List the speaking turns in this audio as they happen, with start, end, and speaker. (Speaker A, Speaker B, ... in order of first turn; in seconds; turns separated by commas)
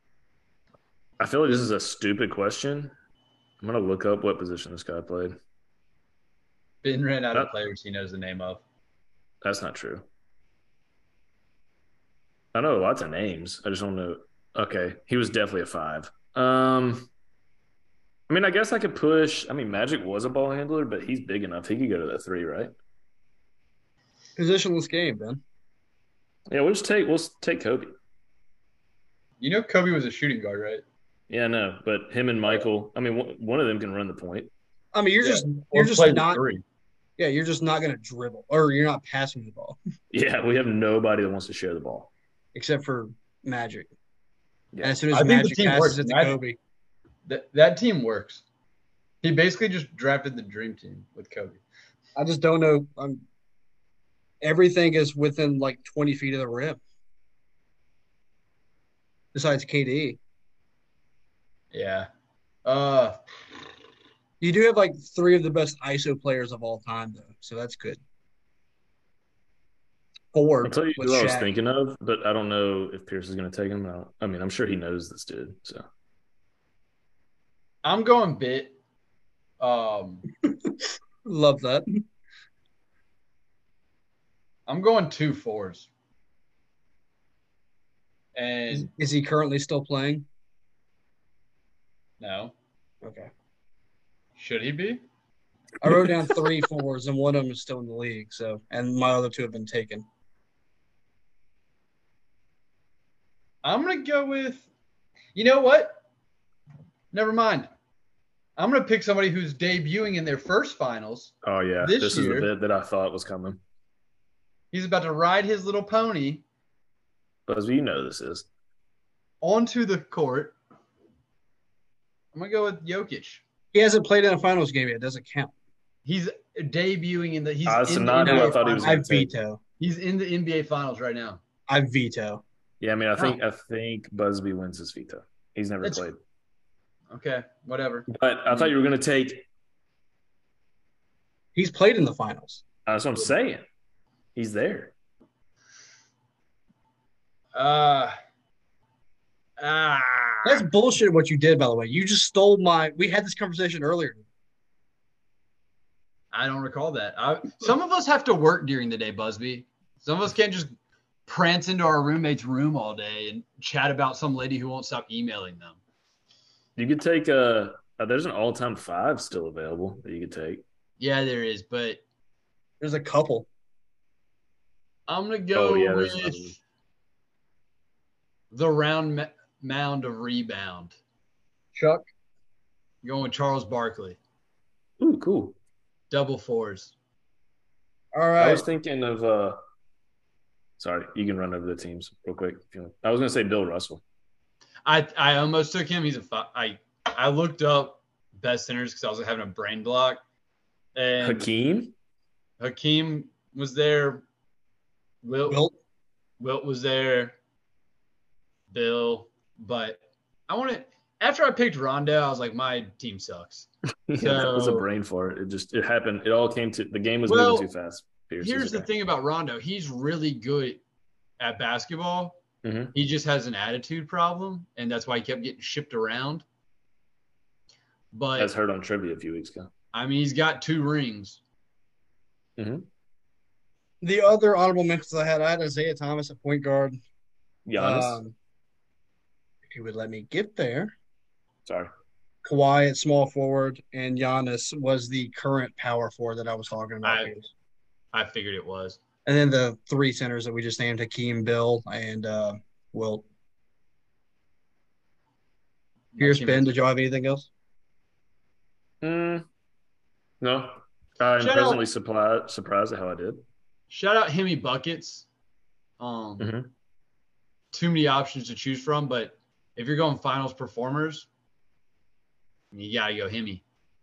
Speaker A: 1.2-2.9, Speaker A: 3.6-5.4, Speaker B: 6.8-8.6, Speaker A: 9.4-10.1, Speaker A: 12.5-17.1, Speaker A: 18.3-22.7, Speaker C: 24.4-25.4, Speaker A: 26.5-27.9, Speaker B: 29.4-30.8, Speaker A: 31.3-34.5, Speaker C: 34.9-36.4, Speaker B: 35.2-36.6, Speaker C: 37.2-39.8, Speaker A: 40.1-42.1, Speaker C: 42.5-43.9, Speaker A: 44.7-45.0, Speaker C: 44.8-46.6, Speaker B: 45.1-46.4, Speaker B: 47.3-48.4, Speaker B: 49.2-51.6, Speaker C: 52.2-53.2, Speaker C: 54.4-56.8, Speaker C: 59.3-60.2, Speaker B: 61.7-62.1, Speaker B: 62.6-63.2, Speaker C: 64.4-68.0, Speaker C: 70.3-71.5, Speaker A: 70.6-75.8, Speaker B: 77.8-78.8, Speaker B: 79.6-80.2, Speaker C: 81.2-82.0, Speaker B: 84.7-85.9, Speaker B: 88.3-88.9, Speaker C: 88.7-90.3, Speaker B: 92.2-92.5, Speaker C: 93.0-93.3, Speaker B: 94.4-95.0, Speaker C: 95.8-100.1, Speaker B: 103.6-104.7, Speaker B: 105.3-106.0, Speaker B: 107.1-107.7, Speaker B: 108.6-112.5, Speaker A: 111.4-113.6, Speaker B: 114.7-116.4, Speaker A: 117.5-118.5, Speaker B: 119.4-120.6, Speaker B: 122.3-123.4, Speaker C: 123.7-125.5, Speaker B: 126.1-128.9, Speaker A: 127.7-129.3, Speaker C: 128.2-129.6, Speaker B: 129.8-131.4, Speaker C: 131.7-132.4, Speaker A: 132.8-136.2, Speaker B: 137.1-138.7, Speaker A: 138.1-139.4, Speaker C: 141.6-142.6, Speaker A: 142.9-143.7, Speaker A: 144.3-144.9, Speaker B: 147.6-148.1, Speaker B: 149.6-150.7, Speaker C: 150.4-154.2, Speaker B: 156.3-160.7, Speaker B: 161.3-165.8, Speaker A: 166.8-170.6, Speaker B: 171.0-172.0, Speaker C: 172.8-173.5, Speaker B: 175.1-176.6, Speaker A: 175.5-176.6, Speaker B: 178.5-181.0, Speaker C: 181.8-182.1, Speaker B: 183.0-184.2, Speaker A: 185.0-185.6, Speaker B: 186.1-186.9, Speaker C: 188.1-188.7, Speaker A: 188.4-189.6, Speaker A: 190.8-194.0, Speaker B: 194.8-200.2, Speaker B: 200.9-201.5, Speaker A: 201.2-201.9, Speaker B: 202.6-204.2, Speaker B: 205.2-205.6, Speaker C: 205.5-205.7, Speaker B: 206.4-207.4, Speaker B: 208.7-214.9, Speaker A: 214.1-218.9, Speaker B: 217.3-217.7, Speaker B: 218.4-220.8, Speaker B: 221.4-222.4, Speaker A: 222.6-222.9, Speaker B: 222.9-226.4, Speaker B: 228.1-228.5, Speaker A: 228.4-229.7, Speaker B: 229.9-231.4, Speaker A: 232.6-232.9, Speaker C: 234.0-237.0, Speaker A: 237.7-238.2, Speaker C: 237.8-238.3, Speaker C: 239.7-240.9, Speaker A: 241.7-241.9, Speaker C: 242.4-247.5, Speaker B: 247.0-247.3, Speaker B: 248.1-249.0, Speaker C: 249.2-253.2, Speaker B: 256.1-256.7, Speaker C: 256.2-257.5, Speaker A: 259.0-259.5, Speaker A: 260.4-263.4, Speaker B: 261.4-261.8, Speaker B: 263.9-265.3, Speaker B: 266.0-266.5, Speaker A: 266.4-266.7, Speaker B: 267.7-271.3, Speaker B: 272.7-273.6